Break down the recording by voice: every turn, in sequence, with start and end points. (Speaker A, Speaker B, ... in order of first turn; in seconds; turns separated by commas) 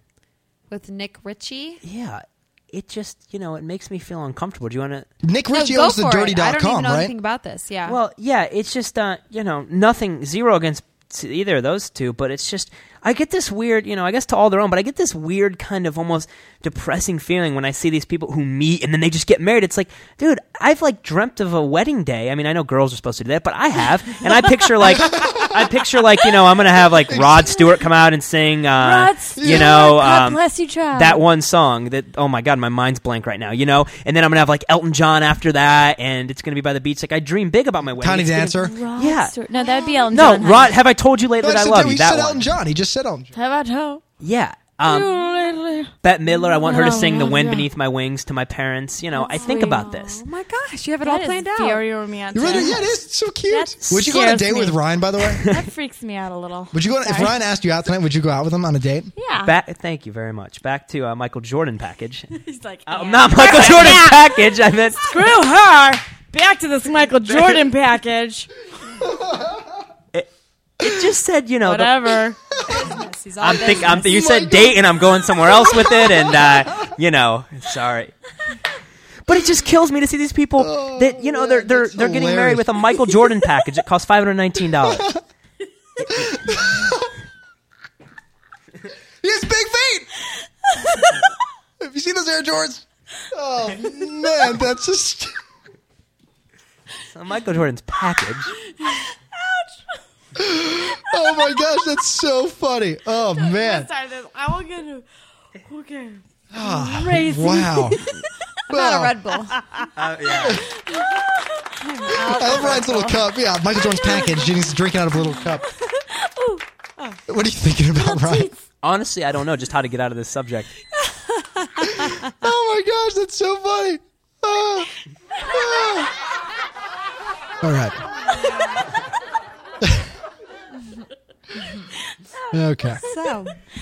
Speaker A: 0.7-1.8, Speaker B: 1.8-5.1, Speaker C: 5.2-7.1, Speaker A: 5.5-8.0, Speaker B: 7.8-39.4, Speaker C: 25.0-25.6, Speaker C: 27.1-27.6, Speaker D: 28.8-31.2, Speaker C: 29.4-29.9, Speaker C: 38.0-38.7, Speaker D: 38.6-40.7, Speaker A: 39.5-40.4, Speaker B: 40.1-42.5, Speaker C: 41.4-43.3, Speaker D: 43.3-44.0, Speaker B: 44.2-45.2, Speaker D: 44.8-47.7, Speaker B: 46.0-50.2, Speaker A: 49.2-51.9, Speaker D: 49.2-49.9, Speaker D: 51.0-52.9, Speaker C: 52.3-55.5, Speaker D: 53.5-54.8, Speaker D: 55.4-57.4, Speaker C: 56.7-59.1, Speaker D: 59.2-59.5, Speaker B: 59.4-62.3, Speaker D: 62.3-64.4, Speaker B: 62.9-65.1, Speaker D: 65.0-68.5, Speaker B: 67.3-67.6, Speaker B: 70.8-72.2, Speaker D: 71.6-72.4, Speaker A: 72.7-74.3, Speaker B: 73.4-78.1, Speaker C: 73.9-74.8, Speaker C: 75.6-76.5, Speaker B: 79.3-85.1, Speaker C: 80.6-82.7, Speaker C: 84.8-85.2, Speaker C: 86.1-87.1, Speaker C: 89.2-90.1, Speaker C: 91.8-95.3, Speaker B: 97.1-98.5, Speaker D: 98.8-99.7, Speaker C: 100.4-103.9, Speaker D: 103.4-105.1, Speaker D: 105.7-108.2, Speaker C: 106.5-108.1, Speaker A: 108.7-109.6, Speaker C: 108.7-109.2, Speaker B: 110.0-110.6, Speaker D: 111.2-113.1, Speaker A: 112.2-113.0, Speaker C: 112.3-115.7, Speaker D: 113.8-114.4, Speaker D: 115.6-116.6, Speaker C: 117.3-118.5, Speaker D: 117.9-118.6, Speaker B: 118.8-120.7, Speaker D: 121.6-122.1, Speaker C: 122.3-124.9, Speaker C: 125.5-126.1, Speaker C: 127.6-128.0, Speaker C: 129.8-130.1, Speaker C: 132.5-133.0, Speaker A: 133.0-133.6